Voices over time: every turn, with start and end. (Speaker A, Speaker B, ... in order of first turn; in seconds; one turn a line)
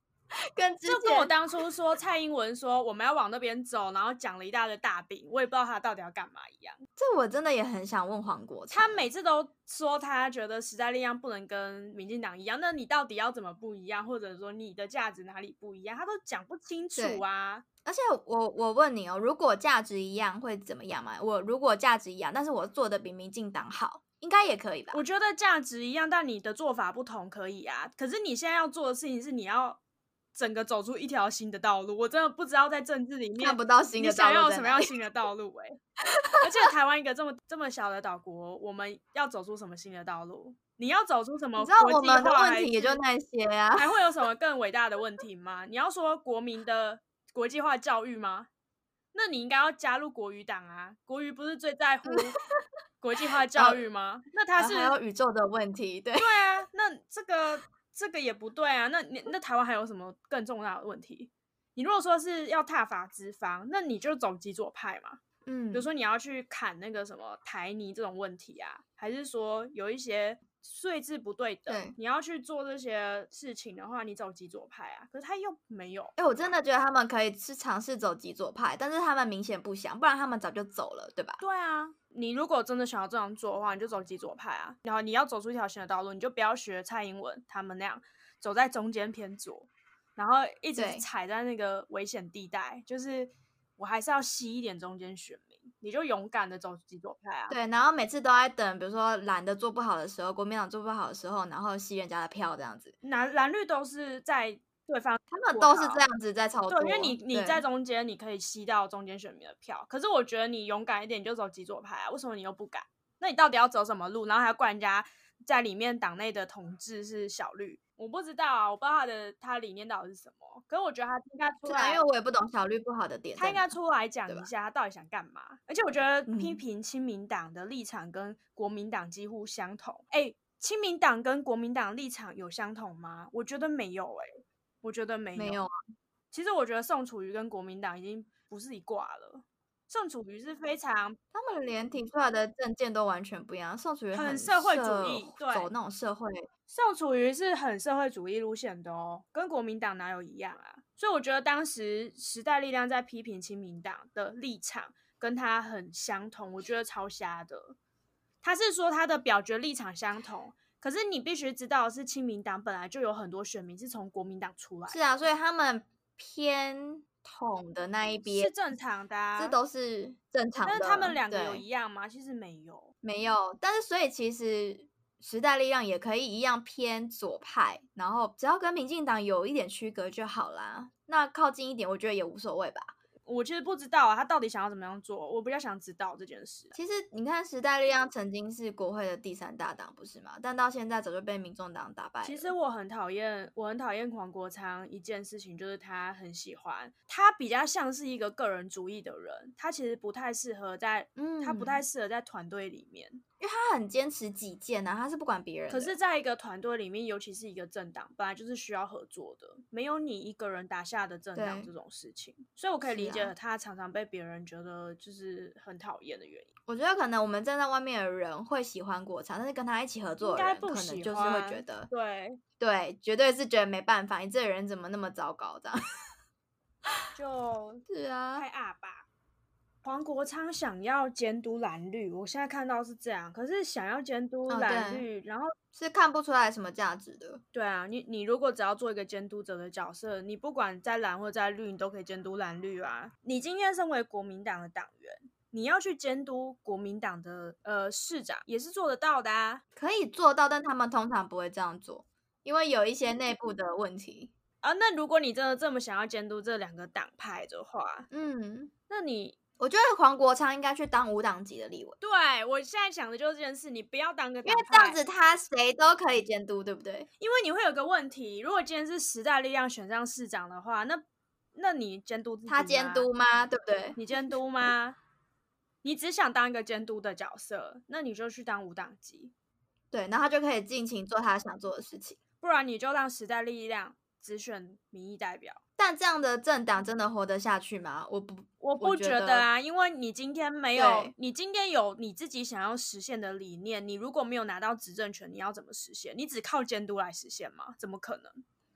Speaker A: 0.5-1.3
Speaker B: 0.9-6.8
Speaker A: 7.0-9.1
Speaker B: 8.7-17.6
Speaker A: 16.9-17.2
Speaker A: 17.8-25.0
Speaker B: 24.9-29.8
Speaker B: 30.3-35.8
Speaker A: 33.4-34.9
Speaker B: 36.4-43.0
Speaker A: 41.6-44.0
Speaker B: 43.8-48.5
Speaker B: 49.1-52.4
Speaker B: 53.0-55.0
Speaker A: 53.5-53.9
Speaker A: 54.6-56.4
Speaker B: 56.2-65.2
Speaker A: 65.5-65.9
Speaker B: 65.7-76.1
Speaker A: 71.7-71.9
Speaker A: 76.2-81.4
Speaker B: 81.4-97.6
Speaker A: 90.7-91.0
Speaker A: 97.5-102.9
Speaker B: 103.0-106.0
Speaker A: 105.3-107.6
Speaker B: 106.7-122.0
Speaker A: 121.6-123.7
Speaker B: 123.3-135.6
Speaker A: 126.3-126.6
Speaker A: 135.3-135.7
Speaker B: 136.3-141.2
Speaker A: 141.3-146.5
Speaker B: 144.1-145.7
Speaker B: 146.7-157.8
Speaker B: 158.4-165.2
Speaker A: 164.9-168.5
Speaker B: 168.2-169.6
Speaker A: 169.4-171.6
Speaker B: 170.6-172.9
Speaker A: 173.0-182.9
Speaker B: 183.2-186.7
Speaker A: 186.7-192.5
Speaker B: 192.2-203.2
Speaker A: 201.2-201.8
Speaker A: 203.4-206.0
Speaker B: 205.7-216.5
Speaker A: 211.3-211.7
Speaker A: 212.8-213.3
Speaker A: 216.7-221.9
Speaker B: 220.2-222.4
Speaker A: 222.6-225.8
Speaker B: 227.1-227.8
Speaker A: 227.9-228.4
Speaker B: 228.3-229.1
Speaker B: 229.8-235.5
Speaker A: 234.5-235.1
Speaker A: 235.7-237.4
Speaker B: 237.5-249.6
Speaker A: 249.8-254.3
Speaker B: 254.6-258.1
Speaker A: 258.1-258.7
Speaker B: 258.9-259.4
Speaker A: 259.6-262.0
Speaker B: 262.0-265.0
Speaker A: 264.4-267.1
Speaker B: 267.2-271.0
Speaker B: 271.5-273.1
Speaker A: 272.5-274.0
Speaker B: 273.9-275.0
Speaker B: 275.8-279.3
Speaker A: 279.9-282.2
Speaker B: 282.4-285.6
Speaker A: 285.8-289.5
Speaker B: 288.6-298.4
Speaker A: 290.7-291.1